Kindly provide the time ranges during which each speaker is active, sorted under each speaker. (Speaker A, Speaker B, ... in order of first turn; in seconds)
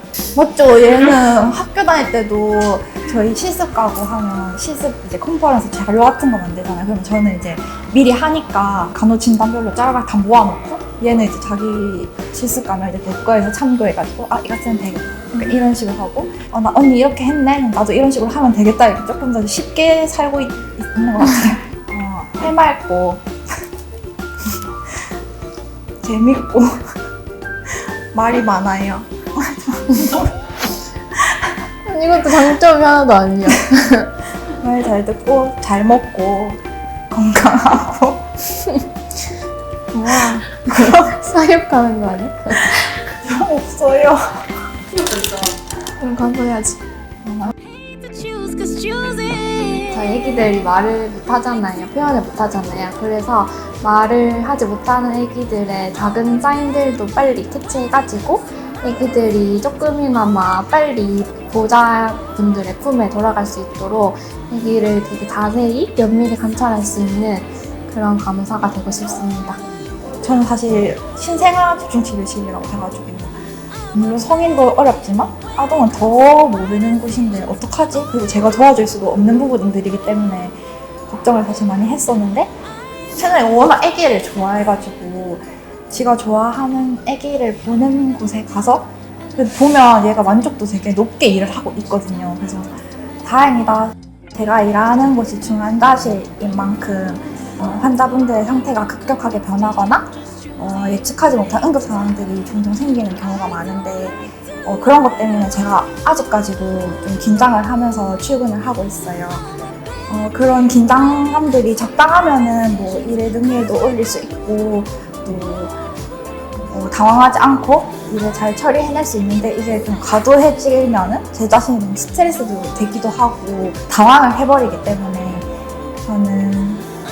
Speaker A: 0.3-23.3, 26.0-27.0, 28.1-30.3, 34.6-38.2, 43.2-44.5, 47.2-47.5, 70.2-73.4, 73.9-80.5, 81.1-82.5, 83.1-92.7, 93.2-109.5, 110.1-115.7, 116.7-125.5, 126.1-126.9
Speaker B: 31.9-34.1, 39.9-43.0, 45.0-46.8, 49.9-69.6